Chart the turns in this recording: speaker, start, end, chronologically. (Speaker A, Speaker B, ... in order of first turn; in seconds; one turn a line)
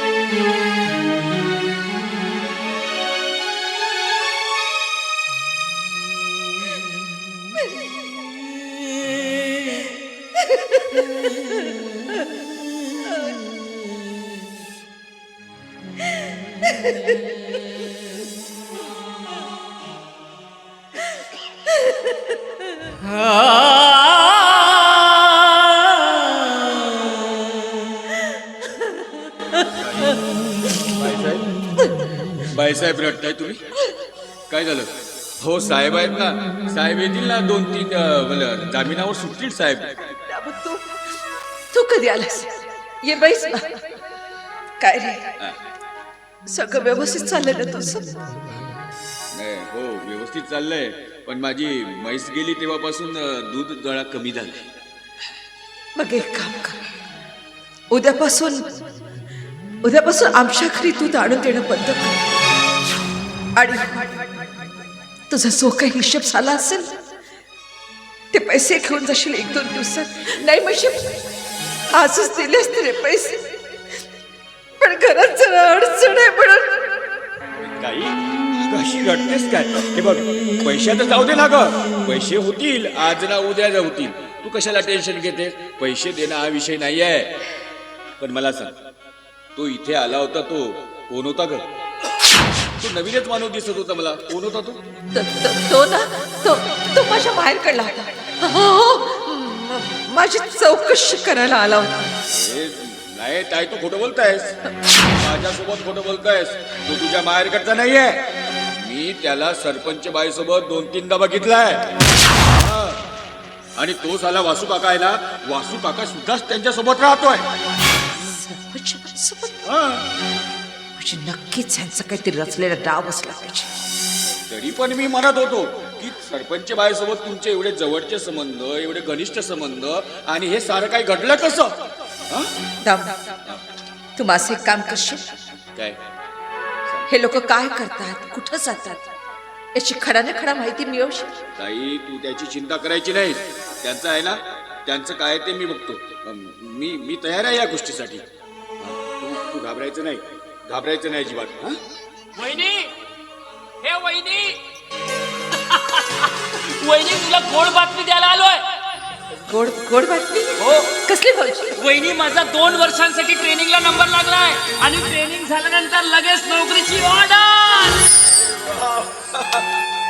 Speaker A: 29.6-30.2
Speaker A: 30.9-31.5
Speaker A: 32.4-33.6
Speaker A: 34.5-40.1
Speaker B: 40.2-41.2
Speaker B: 41.7-43.8
Speaker B: 44.8-45.4
Speaker B: 46.5-48.2
Speaker A: 49.3-54.7
Speaker B: 56.0-56.8
Speaker B: 57.9-58.6
Speaker B: 59.8-62.2
Speaker B: 63.6-64.2
Speaker B: 65.3-66.9
Speaker B: 68.3-71.1
Speaker B: 71.9-73.6
Speaker B: 74.8-77.0
Speaker A: 77.8-87.5
Speaker A: 88.2-88.8
Speaker A: 89.5-91.7
Speaker A: 92.8-94.8
Speaker B: 95.1-102.0
Speaker A: 102.3-104.6
Speaker A: 105.1-111.9
Speaker A: 112.5-113.0
Speaker A: 113.8-117.5
Speaker B: 118.2-119.7
Speaker A: 119.7-120.0
Speaker B: 121.0-123.7
Speaker A: 124.5-132.5
Speaker B: 132.8-133.2
Speaker B: 134.2-135.3
Speaker A: 135.8-136.0
Speaker B: 137.1-139.1
Speaker B: 139.7-141.4
Speaker A: 141.6-148.3
Speaker A: 148.8-151.8
Speaker C: 152.3-152.9
Speaker C: 153.8-154.6
Speaker C: 155.5-158.7
Speaker B: 159.4-161.8
Speaker C: 160.6-161.0
Speaker C: 161.8-168.1
Speaker A: 168.5-169.4